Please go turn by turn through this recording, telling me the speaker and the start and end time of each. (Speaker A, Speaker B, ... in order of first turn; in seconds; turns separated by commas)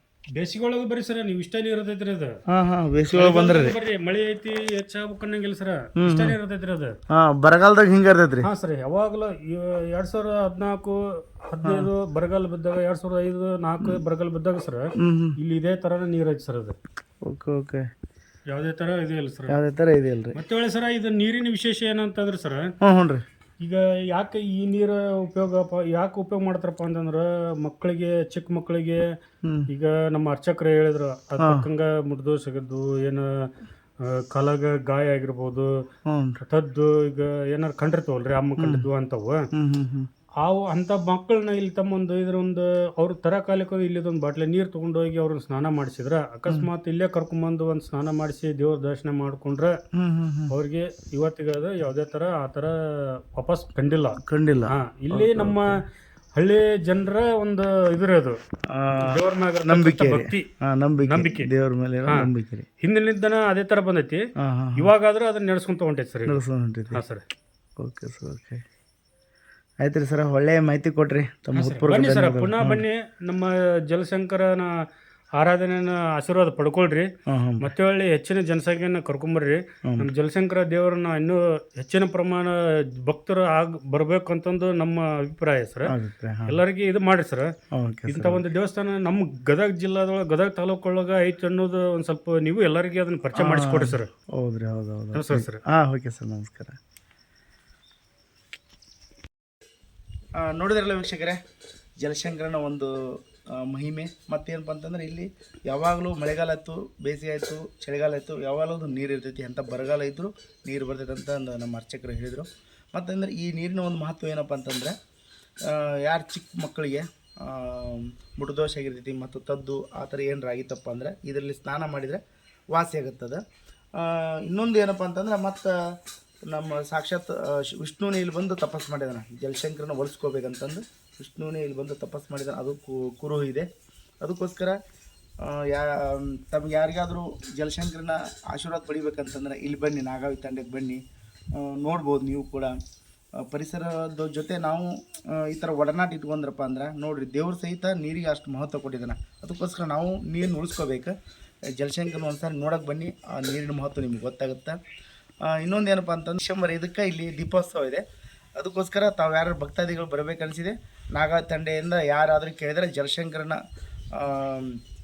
Speaker A: 0.3-2.4, Speaker B: 2.5-3.8, Speaker A: 3.1-6.9, Speaker B: 6.0-6.3, Speaker B: 7.1-8.5, Speaker A: 8.4-16.8, Speaker B: 11.6-11.9, Speaker B: 15.0-15.4, Speaker B: 17.2-17.9, Speaker A: 18.5-19.6, Speaker B: 19.5-20.4, Speaker A: 20.3-22.7, Speaker B: 22.8-23.2, Speaker A: 23.6-29.1, Speaker B: 29.4-29.7, Speaker A: 29.7-35.8, Speaker B: 31.4-31.6, Speaker B: 36.1-36.4, Speaker A: 36.4-39.5, Speaker B: 38.6-38.9, Speaker B: 39.5-40.1, Speaker A: 40.4-49.8, Speaker B: 50.0-50.5, Speaker A: 50.5-55.8, Speaker B: 54.2-55.6, Speaker A: 56.4-58.4, Speaker B: 58.7-59.0, Speaker A: 59.0-60.5, Speaker B: 59.6-62.7, Speaker A: 61.0-61.5, Speaker A: 62.8-66.4, Speaker B: 64.4-64.9, Speaker B: 66.3-67.0, Speaker A: 66.9-67.2, Speaker B: 67.8-68.6, Speaker B: 69.8-72.8, Speaker A: 71.6-74.8, Speaker A: 75.3-77.1, Speaker B: 77.3-77.7, Speaker A: 77.6-85.9, Speaker B: 85.8-86.6, Speaker A: 86.5-87.5, Speaker B: 87.7-88.4, Speaker A: 88.1-94.1, Speaker B: 93.3-96.8, Speaker A: 95.1-95.6, Speaker B: 100.4-101.4, Speaker B: 102.0-114.9, Speaker B: 115.7-122.2, Speaker B: 122.7-123.4, Speaker B: 124.0-125.7, Speaker B: 126.5-133.7, Speaker B: 134.2-134.8, Speaker B: 135.4-141.0, Speaker B: 141.5-142.7, Speaker B: 143.4-151.1, Speaker B: 151.8-154.8, Speaker B: 155.5-158.0, Speaker B: 158.6-163.6, Speaker B: 164.2-164.8